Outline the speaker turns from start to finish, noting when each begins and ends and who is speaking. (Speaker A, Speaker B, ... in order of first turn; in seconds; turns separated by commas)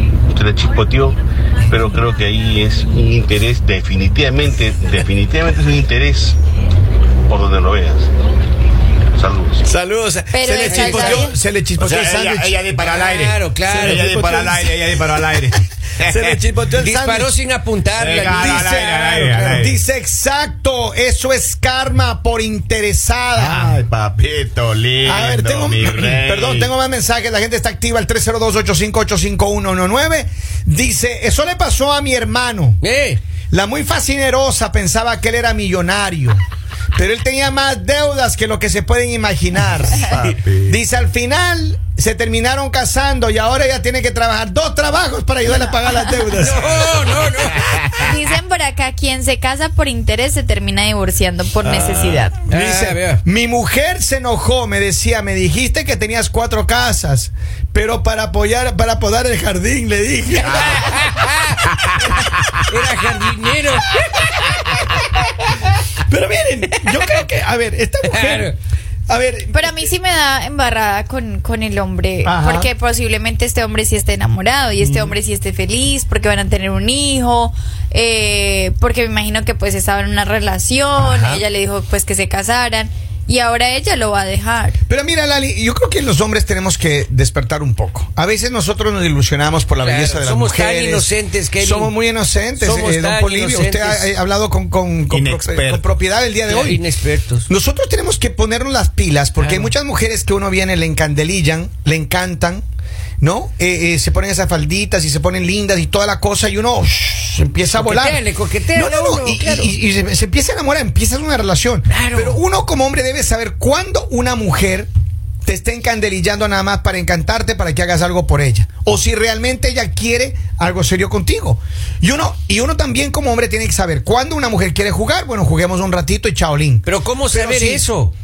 Speaker A: 0.3-1.2, Speaker A: 1.7-6.3, Speaker A: 7.3-8.1, Speaker A: 9.1-9.7, Speaker B: 9.6-12.6, Speaker C: 10.3-11.3, Speaker D: 10.6-11.2, Speaker E: 11.8-16.3, Speaker D: 12.7-14.2, Speaker B: 13.7-14.7, Speaker B: 16.0-17.3, Speaker D: 16.7-18.9, Speaker E: 18.0-19.7, Speaker B: 18.2-23.8, Speaker E: 23.4-26.6, Speaker B: 25.0-32.8, Speaker D: 32.8-33.2, Speaker B: 33.5-36.4, Speaker B: 36.9-47.1, Speaker D: 46.4-48.0, Speaker C: 48.0-52.4, Speaker B: 51.6-61.2, Speaker D: 52.5-53.2, Speaker D: 60.6-61.7, Speaker D: 62.7-64.0, Speaker B: 66.1-68.5, Speaker D: 68.1-68.5, Speaker B: 69.1-69.9, Speaker C: 69.5-84.8, Speaker B: 72.2-72.7, Speaker B: 74.8-75.1, Speaker B: 81.0-81.4, Speaker B: 84.9-96.8, Speaker D: 89.8-91.9, Speaker D: 92.6-94.1, Speaker E: 95.1-95.8, Speaker D: 96.4-97.5, Speaker B: 97.5-102.6, Speaker D: 99.4-99.7, Speaker B: 103.2-108.2, Speaker D: 107.7-109.7, Speaker B: 108.7-114.9, Speaker D: 111.9-112.4, Speaker B: 115.5-127.8, Speaker D: 126.8-128.1